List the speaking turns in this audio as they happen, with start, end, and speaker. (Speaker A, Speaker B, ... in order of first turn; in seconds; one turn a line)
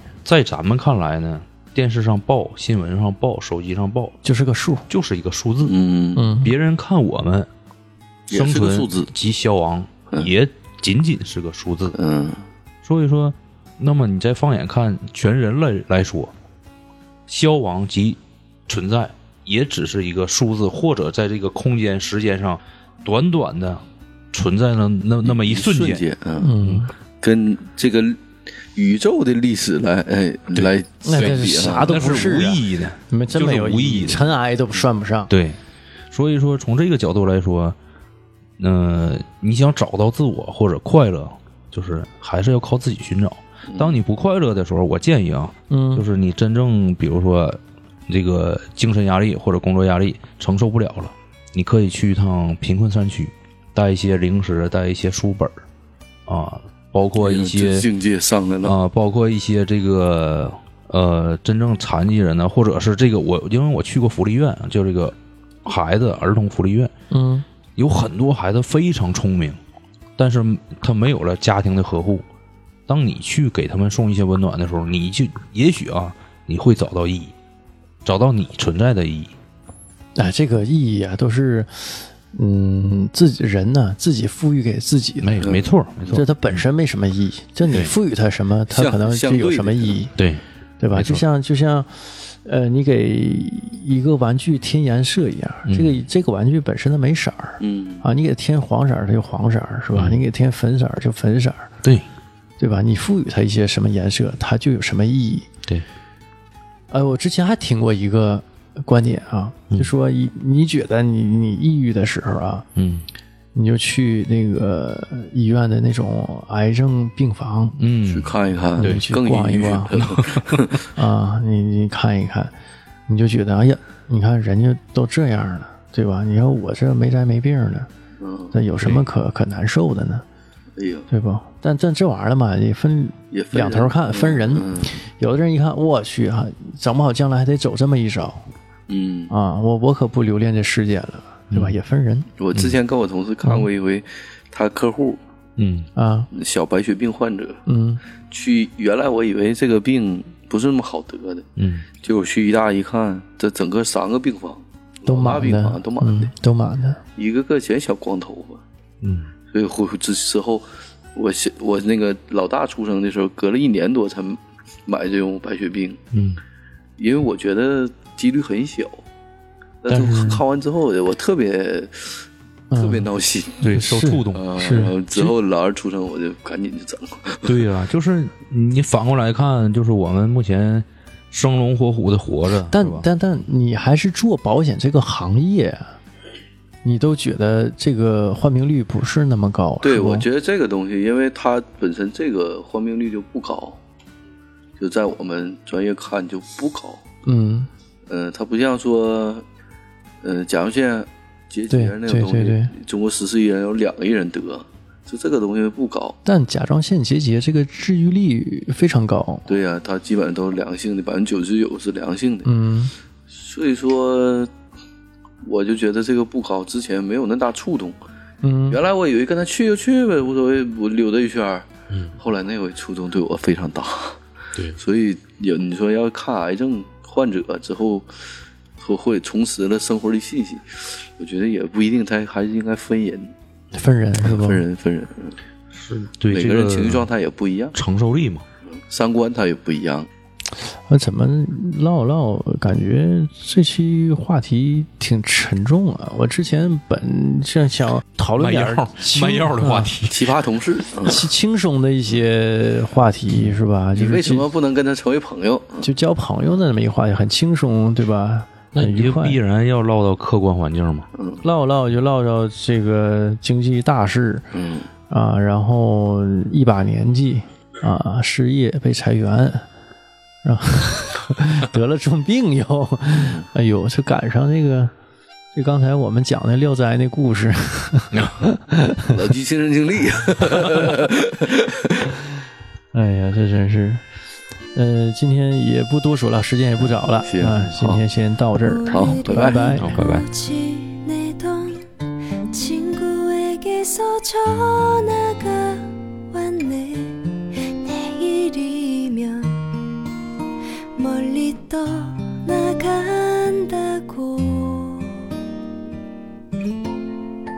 Speaker A: 0.2-4.2
Speaker B: 4.2-4.9
Speaker A: 4.9-5.8
Speaker C: 5.6-6.3
Speaker B: 6.2-6.5
Speaker A: 6.4-7.5
Speaker C: 8.3-9.1
Speaker A: 8.3-12.0
Speaker C: 11.9-12.4
Speaker A: 12.8-16.3
Speaker A: 17.3-23.8
Speaker A: 24.3-26.1
Speaker C: 25.2-26.6
Speaker B: 26.4-26.9
Speaker C: 27.2-32.0
Speaker A: 30.6-34.2
Speaker B: 31.0-35.3
Speaker A: 35.3-35.6
Speaker A: 36.1-37.8
Speaker A: 38.6-55.5
Speaker C: 43.7-44.0
Speaker B: 45.7-46.0
Speaker A: 56.3-57.9
Speaker C: 57.2-58.8
Speaker A: 58.6-66.9
Speaker B: 67.1-67.5
Speaker A: 67.8-69.6
Speaker A: 70.2-72.2
Speaker A: 72.9-77.3
Speaker A: 78.0-79.3
Speaker B: 80.2-85.4
Speaker A: 85.2-86.6
Speaker C: 85.4-85.7
Speaker B: 86.1-90.1
Speaker C: 88.7-90.0
Speaker A: 90.2-90.4
Speaker B: 90.8-101.7
Speaker A: 90.9-91.2
Speaker A: 95.7-96.0
Speaker C: 97.6-98.0
Speaker B: 102.6-105.5
Speaker B: 106.9-112.7
Speaker A: 112.8-113.1
Speaker B: 113.5-117.8
Speaker A: 117.8-119.0
Speaker C: 118.1-120.8
Speaker B: 118.8-120.0
Speaker A: 120.0-120.7
Speaker B: 121.0-122.5
Speaker B: 123.1-127.9
Speaker C: 128.2-128.5
Speaker B: 128.5-130.2
Speaker C: 130.8-131.1
Speaker B: 131.1-138.5
Speaker C: 133.3-135.0
Speaker C: 138.9-139.3
Speaker B: 139.3-142.3
Speaker A: 141.5-141.8
Speaker C: 142.4-145.2
Speaker A: 145.6-145.9
Speaker B: 146.0-146.3
Speaker C: 146.3-147.6
Speaker B: 147.7-148.0
Speaker C: 148.3-151.5
Speaker A: 151.6-151.9
Speaker C: 152.0-156.3
Speaker B: 155.1-157.0
Speaker C: 157.2-158.6
Speaker A: 159.0-159.3
Speaker C: 159.5-166.0
Speaker A: 166.1-166.4
Speaker C: 167.0-169.0
Speaker C: 169.8-173.7
Speaker B: 169.9-170.4
Speaker B: 172.7-173.1
Speaker A: 173.6-174.6
Speaker B: 173.7-174.9
Speaker C: 174.3-177.6
Speaker A: 177.4-183.1
Speaker B: 182.7-185.9
Speaker B: 186.8-190.3
Speaker C: 189.8-193.8
Speaker C: 194.8-197.0
Speaker B: 197.2-197.7
Speaker C: 198.1-199.4
Speaker C: 200.2-206.2
Speaker B: 201.7-202.7
Speaker B: 206.2-209.5
Speaker C: 209.5-212.5
Speaker B: 212.4-212.9
Speaker C: 213.3-214.5
Speaker C: 215.4-218.0
Speaker B: 218.4-218.8
Speaker C: 218.7-224.2
Speaker C: 224.8-228.3
Speaker C: 228.8-233.3
Speaker B: 233.7-234.6
Speaker C: 234.2-235.4
Speaker A: 235.7-237.1
Speaker C: 236.3-237.8
Speaker A: 237.8-238.5
Speaker C: 238.7-240.1
Speaker B: 240.6-249.9
Speaker A: 248.4-250.4
Speaker C: 250.1-251.3
Speaker B: 251.0-254.4
Speaker C: 253.9-255.9
Speaker B: 255.8-259.4
Speaker A: 258.8-261.1
Speaker C: 261.1-261.4
Speaker B: 261.4-264.5
Speaker C: 264.5-264.9
Speaker B: 265.1-269.7
Speaker B: 270.4-274.9
Speaker C: 273.2-273.5
Speaker B: 275.5-279.2
Speaker C: 279.1-282.2
Speaker B: 282.9-284.0
Speaker B: 284.8-290.0
Speaker C: 287.2-288.0
Speaker D: 288.6-291.9
Speaker C: 288.9-289.8
Speaker A: 289.8-290.3
Speaker D: 292.5-299.7
Speaker D: 301.0-305.4